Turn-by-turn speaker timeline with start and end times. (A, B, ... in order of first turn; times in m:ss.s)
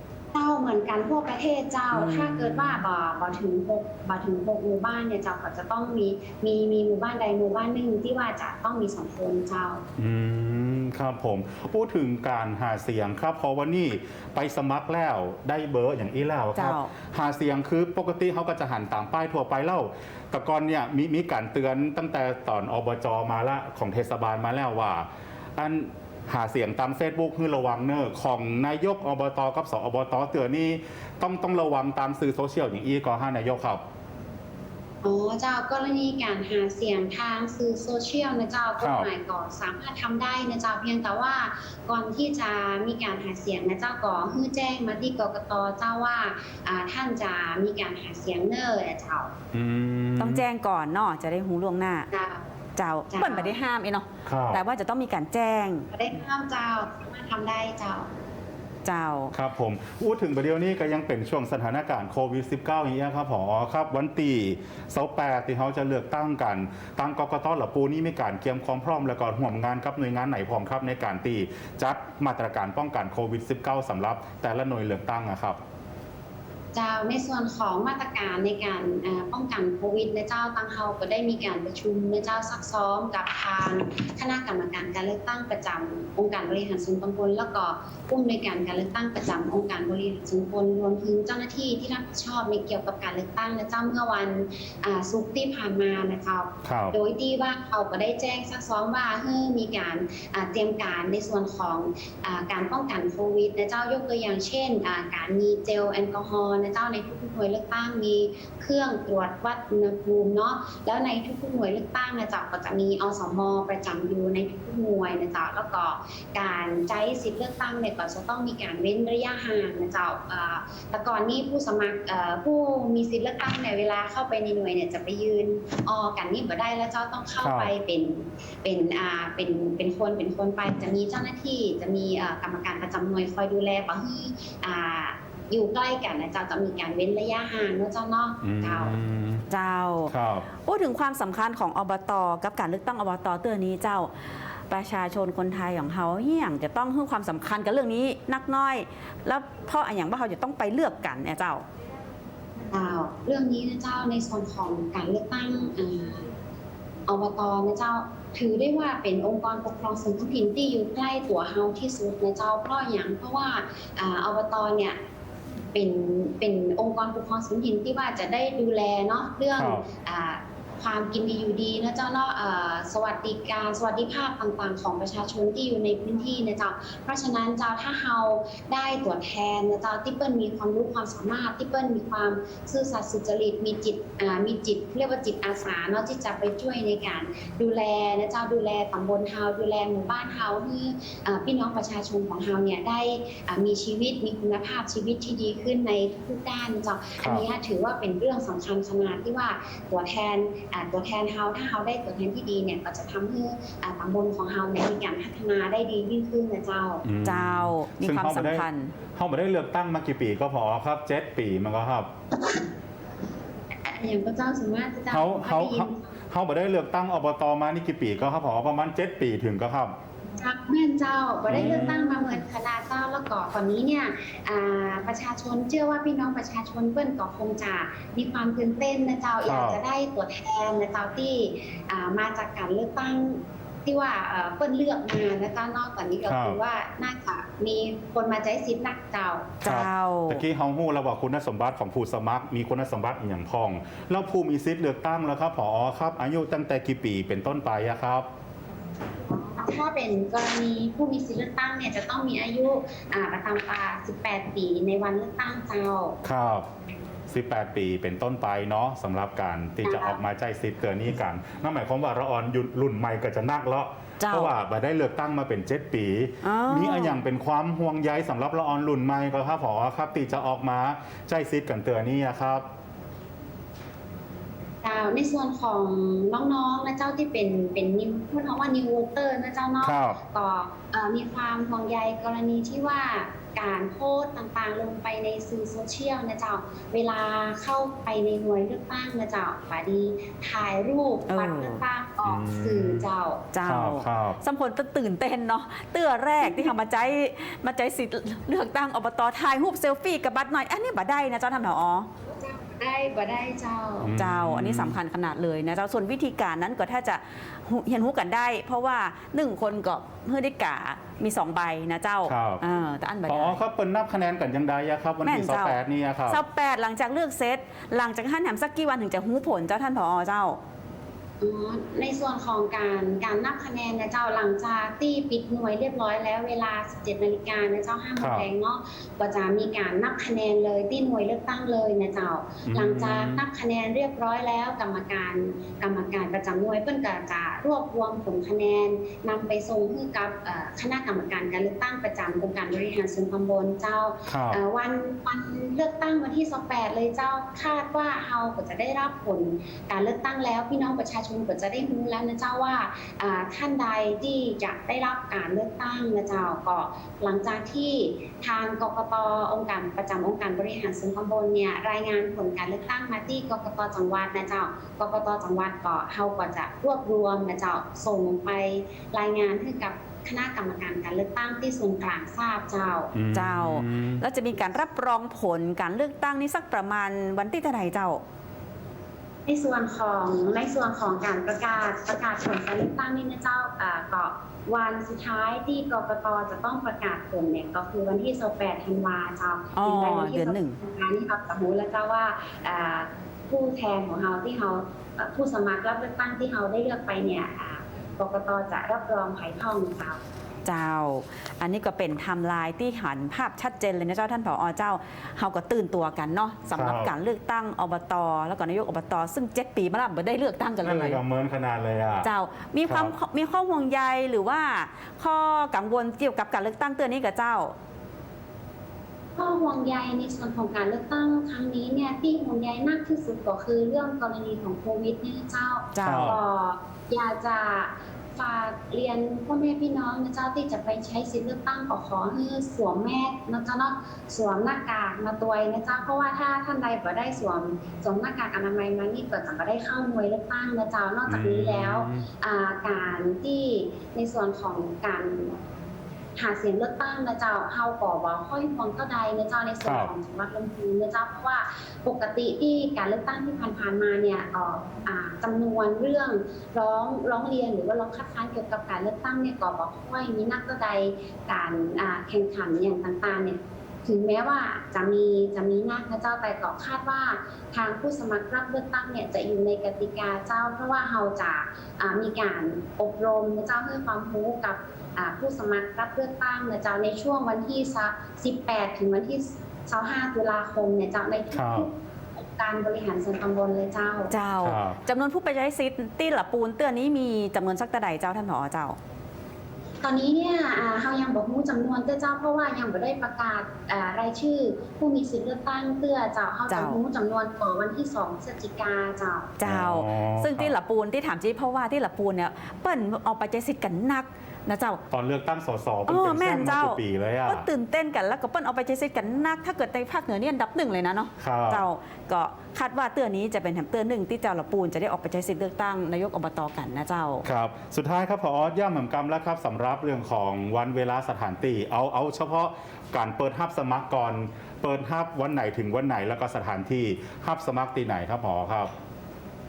0:00.3-0:09.8 A
0:02.0-0:02.3 B
0:10.0-0:33.8 C
0:16.6-0:16.9 B
0:35.0-0:49.3 A
0:38.8-0:39.1 C
0:49.5-0:50.4 C
0:50.2-0:52.1 B
0:52.1-0:52.5 A
0:52.8-0:55.9 B
0:53.1-0:53.5 A
0:54.2-0:54.6 C
0:55.9-0:58.1 A
0:58.8-0:59.3 B
0:59.3-1:15.6 C
1:16.7-2:18.9 A
1:36.6-1:36.9 C
2:07.4-2:07.7 C
2:18.4-2:19.4 C
2:19.5-2:20.1 B
2:20.1-2:20.4 C
2:20.6-2:24.1 B
2:24.7-2:31.6 B
2:32.7-2:36.3 A
2:37.1-2:45.0 A
2:45.7-3:27.0 A
2:49.6-2:49.8 C
3:17.2-3:17.4 C
3:27.0-3:32.1 C
3:27.2-3:28.9 B
3:33.8-3:36.1 A
3:35.1-3:39.9 C
3:40.4-3:59.5 A
3:41.5-3:42.2 C
3:49.4-3:49.8 C
3:56.3-3:56.6 C
3:59.6-4:00.4 B
3:59.6-4:08.3 C
4:09.4-4:16.2 A
4:16.2-4:16.7 C
4:17.3-4:32.6 C
4:19.8-4:20.2 A
4:24.2-4:24.5 B
4:26.4-4:27.2 B
4:34.8-4:53.4 A
4:39.8-4:40.2 C
4:51.3-4:51.8 B
4:52.2-4:53.0 C
4:53.5-5:02.1 B
4:53.6-4:54.4 C
4:56.4-4:56.7 A
5:02.4-5:04.1 A
5:04.0-5:05.0 C
5:04.2-5:13.6 B
5:12.3-5:12.6 C
5:13.3-5:16.4 C
5:15.2-5:15.8 B
5:16.3-5:20.6 B
5:21.4-6:13.1 A
5:28.2-5:28.4 C
5:32.6-5:33.4 C
5:44.3-5:44.6 C
6:13.1-6:14.2 C
6:13.3-6:18.2 B
6:19.5-6:40.2 A
6:29.8-6:30.8 B
6:40.6-6:51.2 B
6:46.7-6:47.1 C
6:50.8-6:52.3 C
6:52.2-6:57.7 B
6:52.8-6:53.1 C
6:59.4-7:25.6 A
7:05.9-7:06.4 B
7:06.0-7:06.4 C
7:21.3-7:22.3 C
7:26.4-8:04.3 A
7:29.8-7:30.1 C
8:01.5-8:01.9 C
8:04.3-8:09.0 B
8:04.6-8:05.0 C
8:10.0-8:19.5 A
8:16.7-8:17.0 B
8:19.6-8:25.0 B
8:19.6-8:20.7 C
8:25.1-8:27.7 C
8:26.1-8:37.4 B
8:31.4-8:31.9 C
8:37.4-8:48.9 C